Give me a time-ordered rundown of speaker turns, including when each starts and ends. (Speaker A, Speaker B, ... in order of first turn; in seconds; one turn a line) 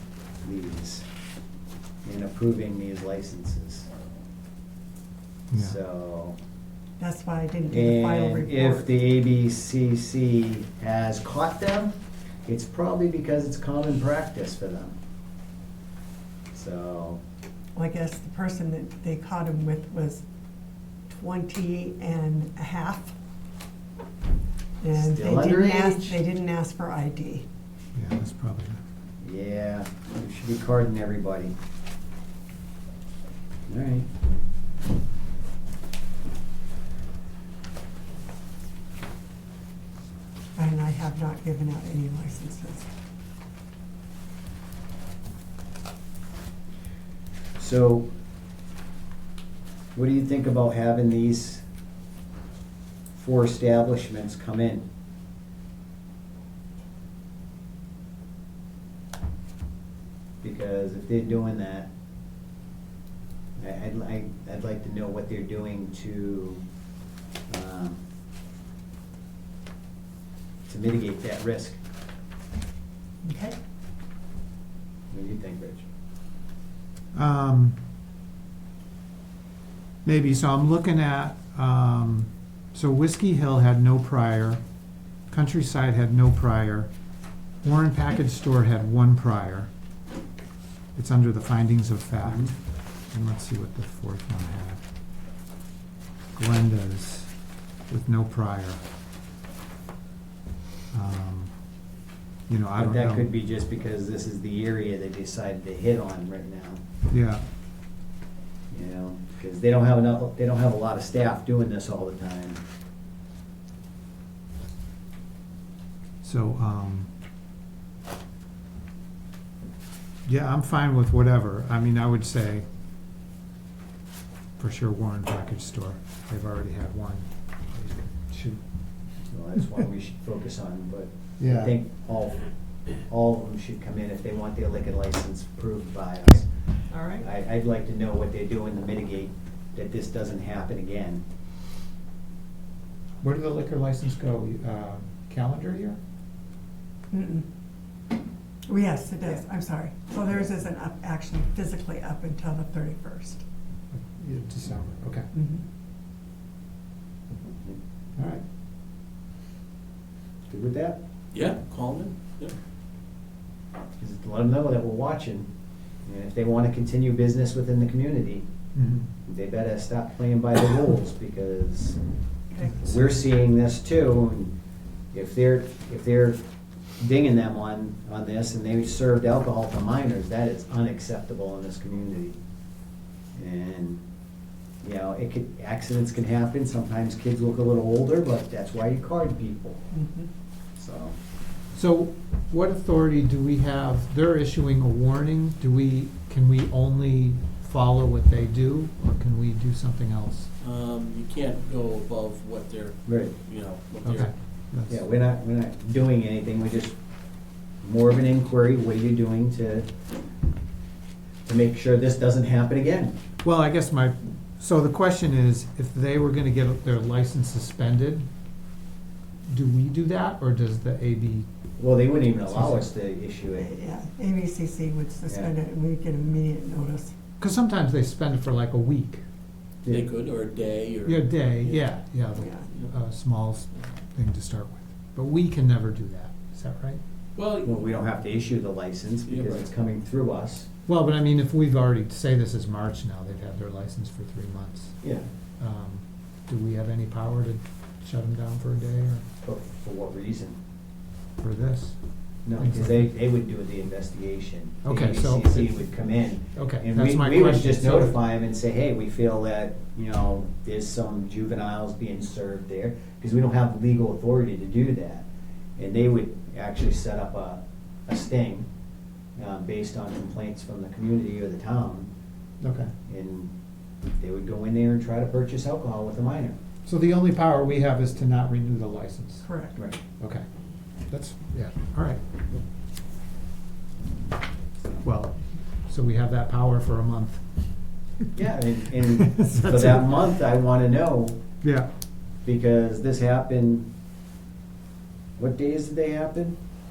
Speaker A: 0.4-1.1
Speaker A: 2.0-3.9
Speaker B: 5.5-5.8
Speaker A: 5.5-6.4
Speaker C: 7.0-8.9
Speaker A: 7.7-11.9
Speaker A: 12.4-15.0
Speaker A: 16.5-17.2
Speaker C: 17.8-20.2
Speaker C: 21.1-23.1
Speaker C: 24.8-27.5
Speaker A: 24.9-26.2
Speaker B: 27.9-28.8
Speaker A: 29.2-31.6
Speaker A: 33.7-34.1
Speaker C: 40.6-42.9
Speaker A: 47.6-48.1
Speaker A: 50.0-51.6
Speaker A: 53.1-54.8
Speaker A: 60.4-61.9
Speaker A: 63.6-66.6
Speaker A: 67.5-68.0
Speaker A: 70.7-71.8
Speaker C: 73.2-73.6
Speaker A: 75.1-75.9
Speaker B: 77.2-77.8
Speaker B: 80.0-84.6
Speaker B: 85.3-86.9
Speaker B: 87.6-89.7
Speaker B: 91.0-92.6
Speaker A: 92.2-92.5
Speaker B: 93.1-94.8
Speaker B: 96.4-97.3
Speaker B: 97.9-98.8
Speaker B: 100.9-101.5
Speaker B: 102.5-103.3
Speaker A: 102.8-106.8
Speaker B: 107.1-107.4
Speaker A: 108.7-112.6
Speaker B: 116.2-117.1
Speaker B: 120.3-122.7
Speaker B: 124.6-128.6
Speaker A: 129.3-132.4
Speaker B: 131.4-131.8
Speaker A: 133.0-136.5
Speaker C: 136.9-137.2
Speaker A: 137.2-141.2
Speaker B: 143.2-146.0
Speaker C: 147.1-147.4
Speaker C: 148.7-153.4
Speaker B: 153.9-155.3
Speaker C: 155.3-155.7
Speaker B: 158.2-158.4
Speaker A: 160.5-161.0
Speaker D: 161.3-162.5
Speaker A: 164.0-165.5
Speaker A: 166.1-168.4
Speaker B: 168.8-169.1
Speaker A: 169.2-172.0
Speaker A: 172.8-174.5
Speaker A: 175.1-176.4
Speaker A: 177.0-182.4
Speaker A: 183.4-184.0
Speaker A: 184.8-189.8
Speaker C: 189.9-190.3
Speaker A: 190.8-191.2
Speaker B: 191.8-200.5
Speaker D: 200.6-204.3
Speaker A: 203.1-203.3
Speaker B: 204.0-205.0
Speaker A: 204.9-206.9
Speaker A: 207.8-209.9
Speaker A: 211.5-213.2
Speaker B: 213.4-218.3
Speaker B: 219.5-221.5
Speaker A: 221.8-223.8
Speaker B: 222.5-222.8
Speaker C: 223.6-227.1
Speaker B: 227.4-229.2
Speaker D: 229.9-231.8
Speaker B: 231.1-237.0
Speaker C: 232.4-232.7
Speaker D: 237.4-237.8
Speaker A: 237.6-240.7
Speaker D: 239.3-239.7
Speaker B: 240.9-245.0
Speaker B: 245.6-249.2
Speaker A: 249.4-250.6
Speaker B: 251.4-252.0
Speaker A: 252.5-265.3
Speaker B: 252.6-253.1
Speaker B: 254.8-255.9
Speaker B: 256.5-258.2
Speaker A: 265.8-268.7
Speaker A: 269.4-272.1
Speaker B: 272.6-272.9
Speaker A: 273.1-273.5
Speaker A: 274.2-276.6
Speaker B: 276.9-279.5
Speaker C: 279.4-279.8
Speaker A: 279.8-280.0
Speaker B: 281.1-282.2
Speaker B: 285.0-287.6
Speaker A: 288.4-291.4
Speaker B: 289.1-290.1
Speaker B: 291.6-291.9
Speaker A: 292.4-293.9
Speaker A: 295.4-296.6